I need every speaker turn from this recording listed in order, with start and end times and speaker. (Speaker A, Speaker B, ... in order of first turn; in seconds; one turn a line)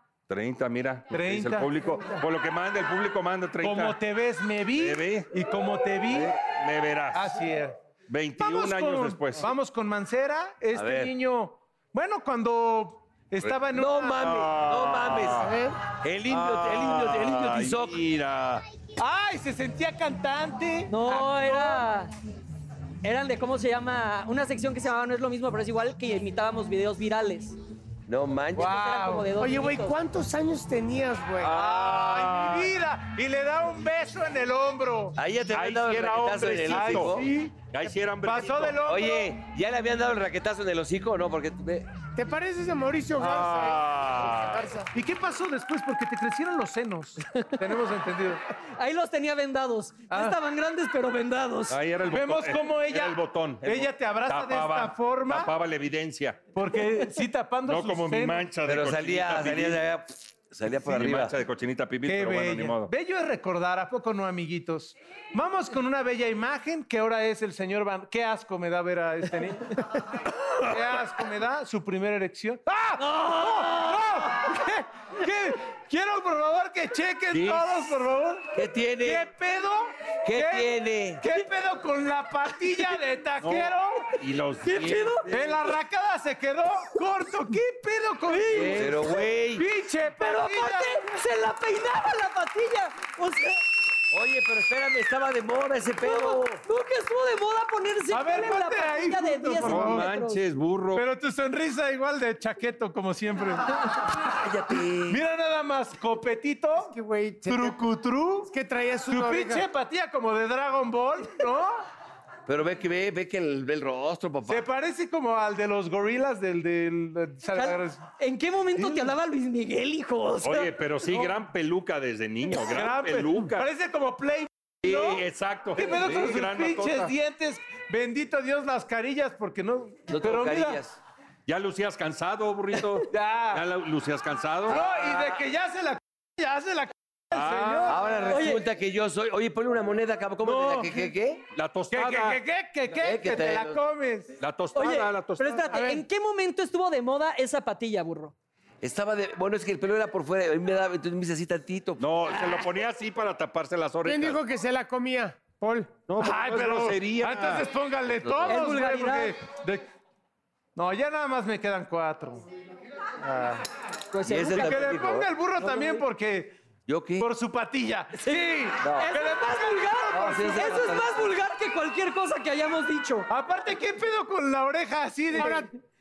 Speaker A: 0.3-4.0
Speaker B: 1.1-2.2
Speaker B: 3.6-6.4
Speaker A: 4.7-5.3
Speaker A: 6.1-7.4
Speaker B: 7.1-7.8
Speaker A: 8.1-9.5
Speaker B: 8.4-14.2
Speaker C: 10.7-11.1
Speaker C: 13.5-18.0
Speaker A: 14.2-15.6
Speaker D: 15.4-15.8
Speaker A: 16.3-18.6
Speaker B: 19.0-21.9
Speaker E: 20.9-22.1
Speaker E: 23.0-27.6
Speaker C: 28.1-29.0
Speaker E: 28.6-30.0
Speaker B: 28.6-29.3
Speaker D: 29.4-31.6
Speaker B: 31.4-35.2
Speaker A: 31.4-32.7
Speaker C: 35.2-37.3
Speaker A: 35.5-38.9
Speaker B: 36.7-37.7
Speaker B: 38.2-39.3
Speaker C: 38.8-42.0
Speaker D: 42.1-44.9
Speaker B: 43.2-43.6
Speaker A: 43.3-44.7
Speaker B: 44.9-48.4
Speaker E: 47.4-47.6
Speaker E: 48.8-51.8
Speaker B: 50.1-50.4
Speaker A: 51.7-56.5
Speaker B: 52.1-55.5
Speaker B: 56.5-58.5
Speaker A: 57.6-59.8
Speaker C: 58.6-61.4
Speaker A: 60.8-62.9
Speaker B: 62.0-70.0
Speaker B: 70.7-84.1
Speaker E: 73.0-74.5
Speaker A: 77.3-77.8
Speaker C: 78.5-79.3
Speaker C: 80.2-81.2
Speaker A: 83.4-85.2
Speaker E: 84.6-85.3
Speaker B: 85.3-91.0
Speaker E: 88.3-89.1
Speaker C: 88.5-89.7
Speaker E: 90.2-93.6
Speaker C: 94.1-96.6
Speaker E: 96.0-100.4
Speaker B: 98.1-100.1
Speaker A: 99.6-101.0
Speaker B: 100.9-103.9
Speaker C: 104.2-105.2
Speaker B: 105.1-106.9
Speaker D: 106.8-107.8
Speaker B: 107.5-108.5
Speaker D: 108.4-109.7
Speaker B: 109.1-111.8
Speaker C: 112.5-114.7
Speaker B: 114.5-118.0
Speaker E: 117.5-120.7
Speaker B: 118.8-119.1
Speaker A: 120.4-123.7
Speaker B: 122.6-125.2
Speaker C: 124.8-125.2
Speaker A: 124.9-127.1
Speaker B: 125.8-130.8
Speaker C: 125.8-126.3
Speaker C: 130.1-131.0
Speaker A: 131.5-134.8
Speaker B: 133.1-133.6
Speaker B: 134.7-138.2
Speaker C: 134.7-135.4
Speaker A: 137.3-138.3
Speaker C: 137.9-141.4
Speaker E: 138.3-138.6
Speaker B: 140.4-141.1
Speaker A: 141.5-142.4
Speaker B: 141.9-144.3
Speaker C: 142.9-143.8
Speaker A: 144.4-145.8
Speaker E: 144.8-148.3
Speaker D: 145.7-146.0
Speaker C: 148.8-152.6
Speaker A: 152.0-154.4
Speaker D: 154.1-156.0
Speaker A: 156.1-157.7
Speaker B: 156.2-159.8
Speaker C: 158.2-158.6
Speaker E: 158.5-159.3
Speaker B: 160.8-162.4
Speaker B: 163.2-163.6
Speaker E: 164.1-164.9
Speaker C: 164.2-165.3
Speaker B: 164.5-166.6
Speaker E: 165.6-166.0
Speaker C: 166.9-167.3
Speaker B: 167.2-171.0
Speaker E: 168.2-173.3
Speaker C: 168.8-169.1
Speaker C: 170.1-171.2
Speaker B: 173.3-175.7
Speaker D: 175.3-175.7